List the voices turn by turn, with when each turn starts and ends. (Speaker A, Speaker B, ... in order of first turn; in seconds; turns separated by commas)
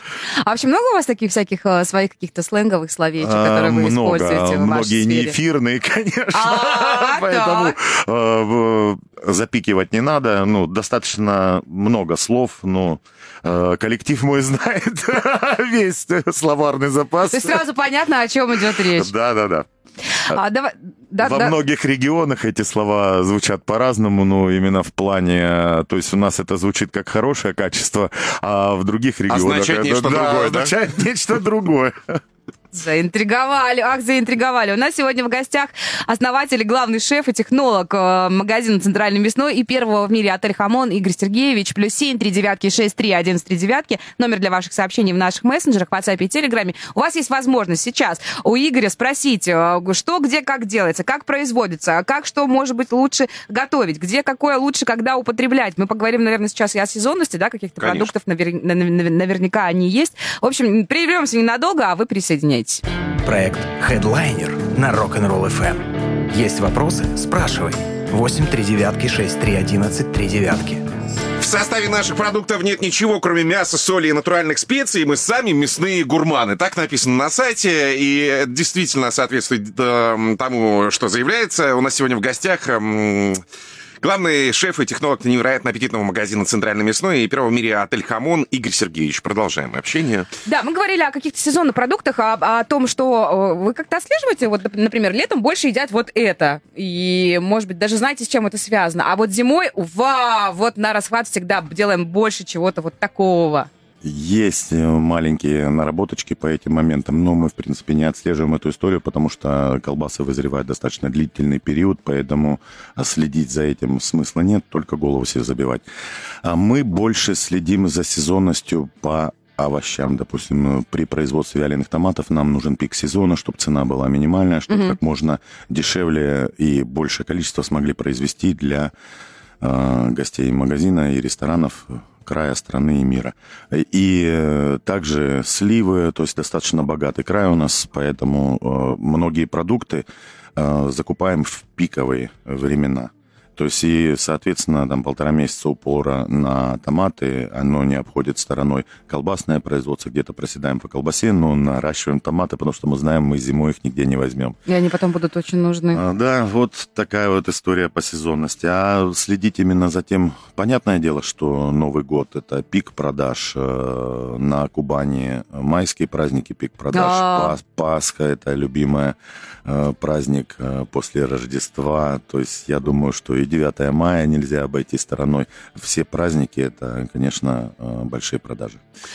Speaker A: 0.3-5.3, Speaker B: 3.2-17.6, Speaker A: 6.3-7.8, Speaker A: 17.3-19.1, Speaker B: 18.7-19.7, Speaker A: 20.1-21.6, Speaker B: 21.2-32.2, Speaker C: 29.3-30.7, Speaker A: 32.7-62.8, Speaker C: 57.8-58.1, Speaker D: 63.2-70.9, Speaker C: 71.4-83.4, Speaker C: 84.0-90.3, Speaker A: 90.5-103.7, Speaker B: 104.0-115.8, Speaker B: 116.4-128.9, Speaker A: 124.7-125.0, Speaker B: 129.6-154.6, Speaker A: 154.7-156.0, Speaker B: 155.9-178.8, Speaker A: 166.9-167.6